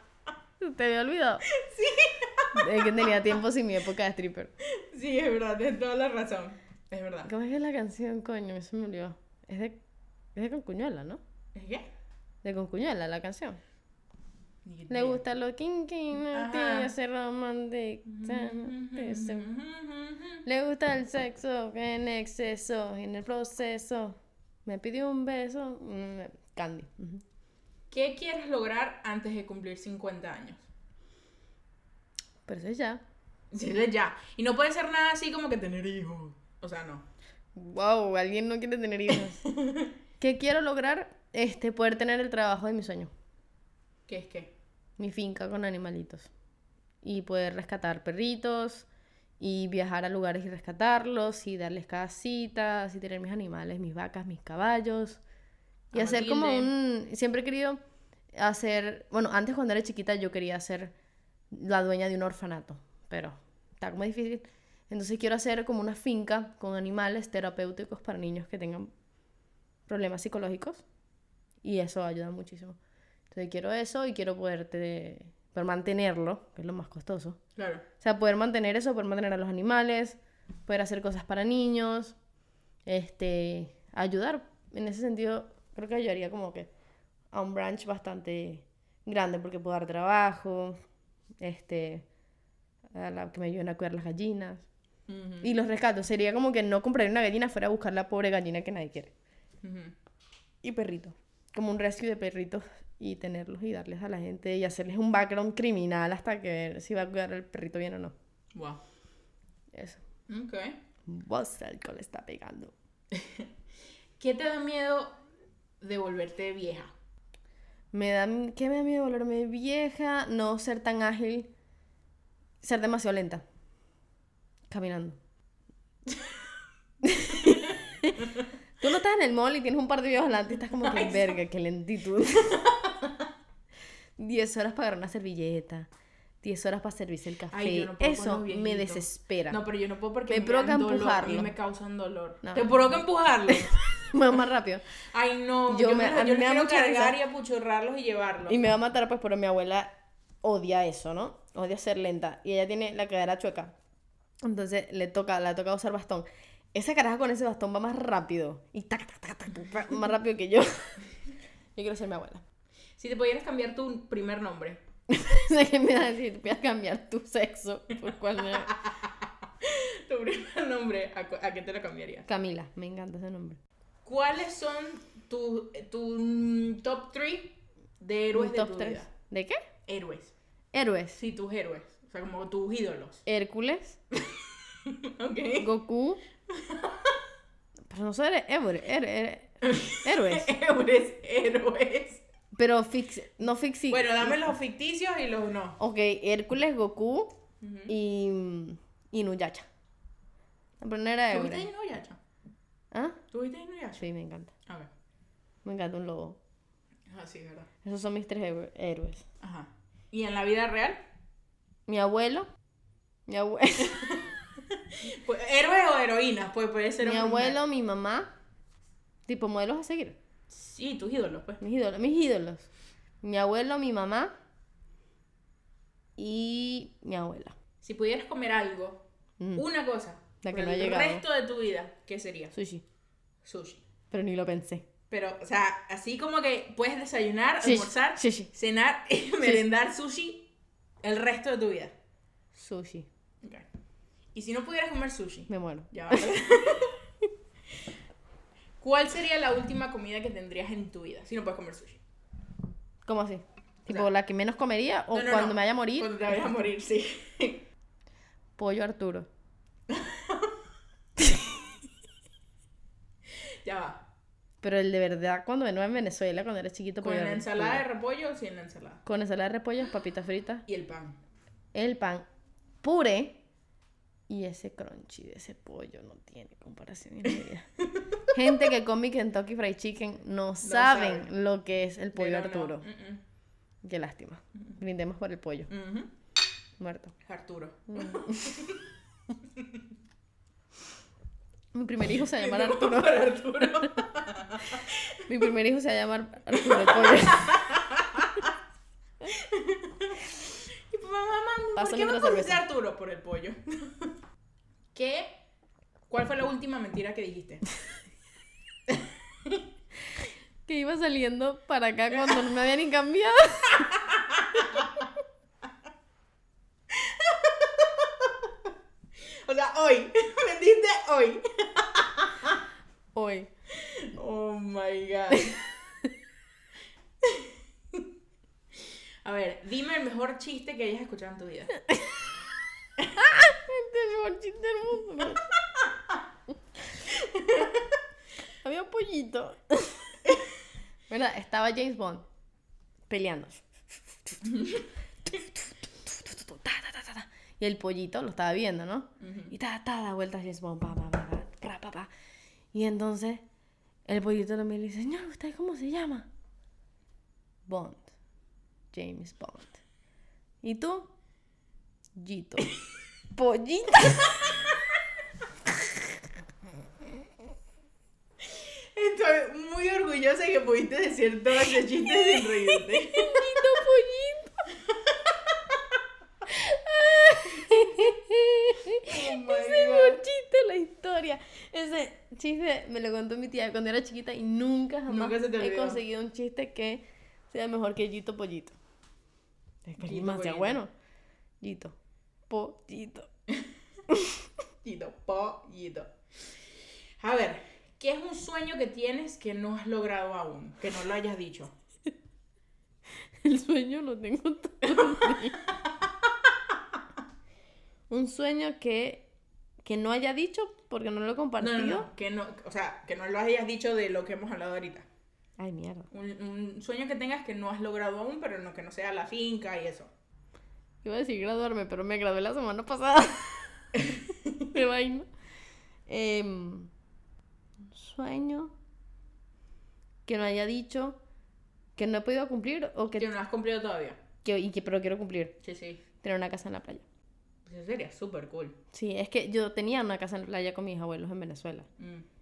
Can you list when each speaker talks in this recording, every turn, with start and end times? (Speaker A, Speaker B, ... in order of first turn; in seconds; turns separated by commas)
Speaker A: 0.6-1.5, Speaker B: 1.5-3.2, Speaker A: 2.5-4.5, Speaker B: 4.8-7.3, Speaker A: 7.3-9.8, Speaker A: 10.3-11.2, Speaker B: 11.6-11.9, Speaker A: 12.4-13.6, Speaker B: 14.7-15.2, Speaker A: 14.9-19.5, Speaker B: 16.1-16.9, Speaker B: 18.1-20.4, Speaker A: 20.4-27.2, Speaker B: 27.9-30.7, Speaker A: 32.5-33.0, Speaker B: 33.5-37.0, Speaker A: 37.5-39.5, Speaker B: 39.4-39.9, Speaker A: 40.2-43.1, Speaker B: 44.1-44.5, Speaker A: 45.0-46.3, Speaker A: 47.0-48.9, Speaker A: 49.4-55.2, Speaker B: 55.9-56.7, Speaker A: 55.9-57.8, Speaker A: 58.3-60.9, Speaker A: 61.5-68.9, Speaker A: 69.9-70.8, Speaker A: 71.6-72.8, Speaker A: 73.3-77.4, Speaker B: 77.6-77.8, Speaker A: 78.0-82.2, Speaker A: 82.8-86.7, Speaker A: 87.3-90.8, Speaker A: 91.4-92.1, Speaker A: 92.9-94.7, Speaker B: 95.1-95.5, Speaker A: 95.4-99.1, Speaker B: 99.6-99.9, Speaker A: 100.6-108.1, Speaker B: 108.5-108.8, Speaker A: 109.7-110.0, Speaker B: 110.3-110.8, Speaker A: 111.1-112.7, Speaker B: 113.1-113.5, Speaker B: 114.2-115.2, Speaker B: 115.8-116.9, Speaker A: 117.9-121.5, Speaker A: 122.6-123.4, Speaker A: 124.7-125.2, Speaker A: 127.0-132.8, Speaker B: 127.3-128.5, Speaker B: 130.8-131.4, Speaker B: 132.7-133.3, Speaker A: 134.2-135.9, Speaker A: 136.4-139.6, Speaker B: 137.5-143.8, Speaker A: 140.3-141.5, Speaker A: 143.5-144.8, Speaker B: 145.1-148.6, Speaker A: 145.7-147.2, Speaker A: 148.5-153.7, Speaker A: 154.4-161.0, Speaker A: 161.8-162.4, Speaker B: 163.0-164.8, Speaker A: 165.1-168.7, Speaker B: 168.4-172.3, Speaker A: 172.3-173.6, Speaker B: 174.1-179.1, Speaker A: 178.3-179.6, Speaker B: 179.9-180.3, Speaker A: 180.7-181.2, Speaker B: 181.2-183.2, Speaker A: 183.3-184.0, Speaker B: 184.2-185.7, Speaker A: 185.6-186.2, Speaker B: 186.5-187.2, Speaker A: 187.9-190.5, Speaker B: 189.6-192.2, Speaker A: 192.5-194.5, Speaker B: 193.9-195.8, Speaker A: 195.8-197.4, Speaker B: 197.6-198.0, Speaker A: 197.9-199.7, Speaker A: 200.8-201.7, Speaker B: 201.3-202.2, Speaker A: 202.9-203.2, Speaker B: 203.3-204.1, Speaker A: 204.0-204.5, Speaker A: 205.6-206.4, Speaker B: 207.1-207.7, Speaker A: 207.8-209.2, Speaker B: 209.4-211.0, Speaker A: 211.9-212.5, Speaker A: 213.3-214.2, Speaker B: 213.9-217.6, Speaker A: 217.0-218.3, Speaker A: 219.3-220.2, Speaker B: 220.5-221.6, Speaker A: 221.6-222.7, Speaker A: 223.2-224.3, Speaker A: 226.2-227.6, Speaker B: 227.8-232.6, Speaker A: 229.4-229.7, Speaker A: 230.4-231.2, Speaker A: 232.5-232.8, Speaker B: 233.4-233.8, Speaker A: 234.1-234.9, Speaker B: 235.1-240.5, Speaker A: 237.6-238.5, Speaker B: 241.0-241.9, Speaker A: 242.5-243.1, Speaker B: 244.3-247.0, Speaker A: 245.5-246.3, Speaker B: 248.8-252.0, Speaker A: 253.1-256.2, Speaker B: 255.1-257.6, Speaker A: 258.6-259.3, Speaker B: 259.9-260.6, Speaker B: 263.6-264.0, Speaker A: 264.6-267.8, Speaker B: 267.0-269.0, Speaker A: 269.1-270.6, Speaker B: 270.7-271.2, Speaker A: 271.7-272.3, Speaker A: 272.8-273.4, Speaker A: 274.3-277.7, Speaker B: 277.3-278.3, Speaker A: 278.3-282.9, Speaker B: 280.6-281.3, Speaker B: 282.1-283.2, Speaker A: 283.8-285.7, Speaker B: 285.7-286.1, Speaker A: 286.8-287.1, Speaker B: 287.2-288.9, Speaker A: 287.9-288.6, Speaker B: 289.4-289.8, Speaker A: 291.7-294.0, Speaker B: 292.1-295.4, Speaker A: 295.3-297.6, Speaker B: 296.6-298.6, Speaker B: 299.2-304.1, Speaker A: 301.8-302.6, Speaker B: 304.9-305.4, Speaker B: 306.1-307.7, Speaker B: 308.9-309.6, Speaker A: 310.7-314.0, Speaker B: 312.1-312.4, Speaker B: 313.8-315.1, Speaker B: 316.9-318.5, Speaker B: 319.3-322.6, Speaker A: 323.1-323.5, Speaker B: 323.7-325.8, Speaker B: 327.2-328.1, Speaker B: 329.2-331.8, Speaker A: 333.1-335.5, Speaker B: 337.1-337.9, Speaker A: 338.6-340.4, Speaker A: 341.1-342.2, Speaker A: 343.1-344.4, Speaker B: 344.4-344.9, Speaker A: 345.3-352.1, Speaker B: 349.2-349.5, Speaker A: 352.7-353.4, Speaker A: 354.1-356.3, Speaker A: 357.6-358.1, Speaker A: 358.9-359.8, Speaker A: 360.6-361.1, Speaker A: 362.1-362.8, Speaker A: 363.3-364.5, Speaker B: 368.4-373.6, Speaker A: 372.8-374.6, Speaker B: 374.9-375.8, Speaker A: 376.4-388.8, Speaker B: 377.7-378.0, Speaker B: 379.0-380.2, Speaker B: 385.1-386.0, Speaker A: 389.9-390.9, Speaker B: 390.0-390.8, Speaker A: 391.6-391.9, Speaker A: 392.5-393.3, Speaker A: 394.1-394.5, Speaker B: 394.8-396.1, Speaker B: 397.2-401.7, Speaker A: 403.4-405.6, Speaker B: 404.9-405.5, Speaker A: 408.1-409.3, Speaker A: 409.8-412.1, Speaker B: 411.6-415.1, Speaker A: 415.6-416.1, Speaker B: 416.1-420.1, Speaker A: 421.0-424.0, Speaker B: 424.0-424.7, Speaker A: 424.6-425.3, Speaker A: 426.1-426.9, Speaker A: 427.9-428.7, Speaker A: 430.2-431.2, Speaker A: 432.0-433.3, Speaker B: 433.2-434.2, Speaker A: 434.4-435.6, Speaker B: 435.6-436.0, Speaker A: 436.2-437.0, Speaker B: 437.6-438.8, Speaker A: 438.9-441.9, Speaker B: 442.0-442.2